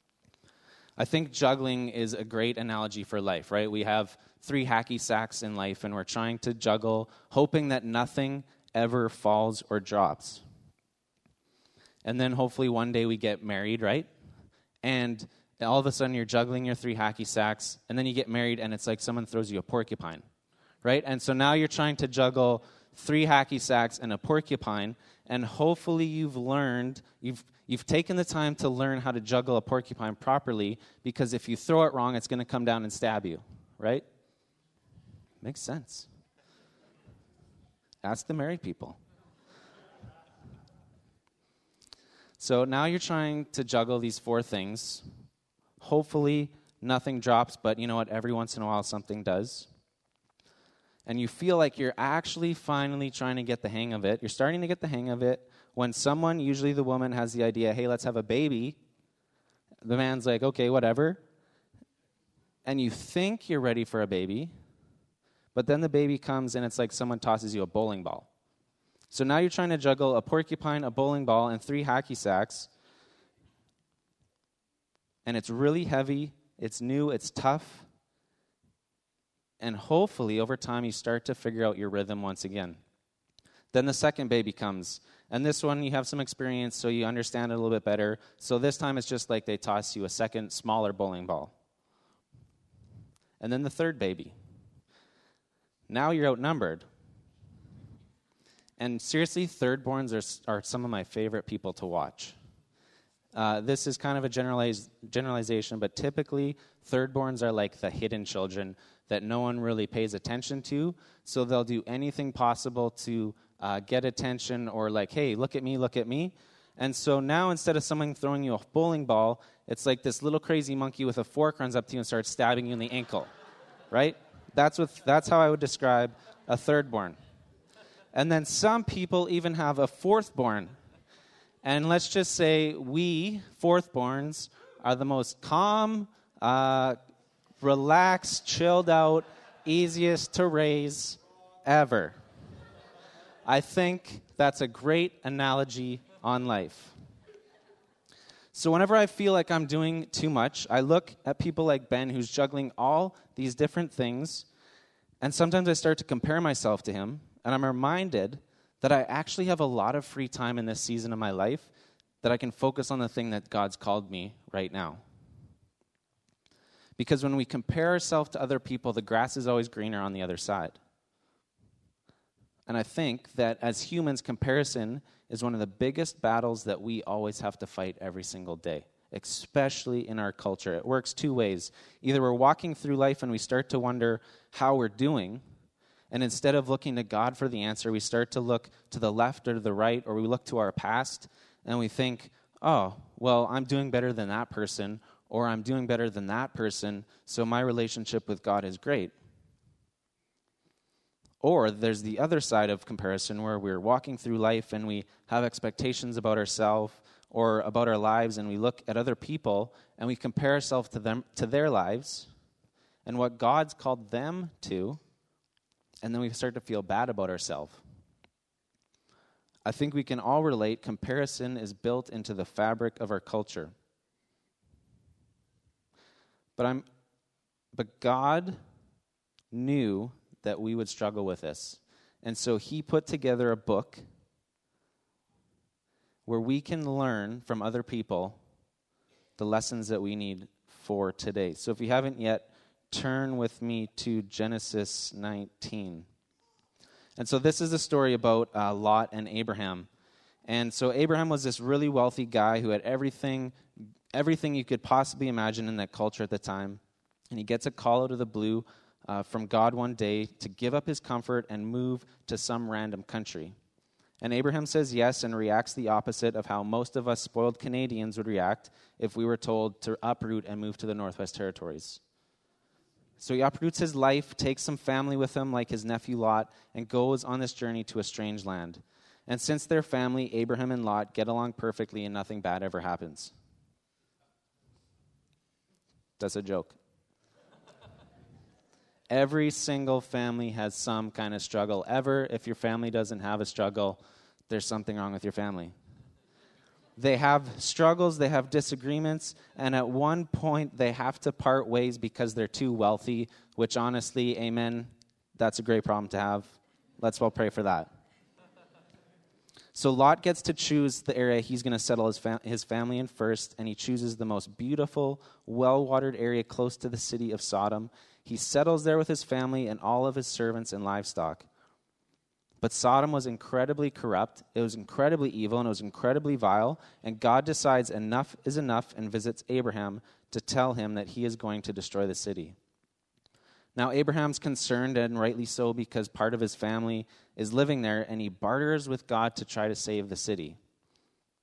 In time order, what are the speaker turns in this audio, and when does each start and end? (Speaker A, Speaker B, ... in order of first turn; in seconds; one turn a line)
Speaker A: 1.0-10.4
Speaker A: 12.0-14.1
Speaker A: 14.8-20.2
Speaker A: 20.8-34.0
Speaker A: 35.4-36.1
Speaker A: 38.0-39.0
Speaker A: 42.4-45.0
Speaker A: 45.8-49.7
Speaker A: 51.0-58.8
Speaker A: 59.8-61.2
Speaker A: 62.6-64.5
Speaker A: 65.5-68.3
Speaker A: 69.1-72.7
Speaker A: 75.2-77.9
Speaker A: 79.6-82.8
Speaker A: 83.7-91.5
Speaker A: 93.4-94.3
Speaker A: 95.9-96.8
Speaker A: 98.8-102.3
Speaker A: 103.3-123.3
Speaker A: 123.9-127.2
Speaker A: 128.1-130.7
Speaker A: 131.6-137.0
Speaker A: 137.6-142.1
Speaker A: 143.4-146.9
Speaker A: 148.5-154.5
Speaker A: 155.2-161.7
Speaker A: 162.2-165.0
Speaker A: 167.0-170.8
Speaker A: 172.7-185.4
Speaker A: 186.1-199.1
Speaker A: 201.4-212.3
Speaker A: 213.1-215.0
Speaker A: 216.0-217.8
Speaker A: 219.7-223.7
Speaker A: 226.6-226.8
Speaker A: 227.7-228.6
Speaker A: 229.5-234.0
Speaker A: 236.2-238.4
Speaker A: 239.4-246.1
Speaker A: 247.2-249.9
Speaker A: 250.5-253.5
Speaker A: 254.1-263.5
Speaker A: 264.2-272.0
Speaker A: 273.2-283.3
Speaker A: 286.2-286.8
Speaker A: 289.1-295.7
Speaker A: 297.0-307.9
Speaker A: 309.7-321.4
Speaker A: 322.6-332.5
Speaker A: 333.8-340.6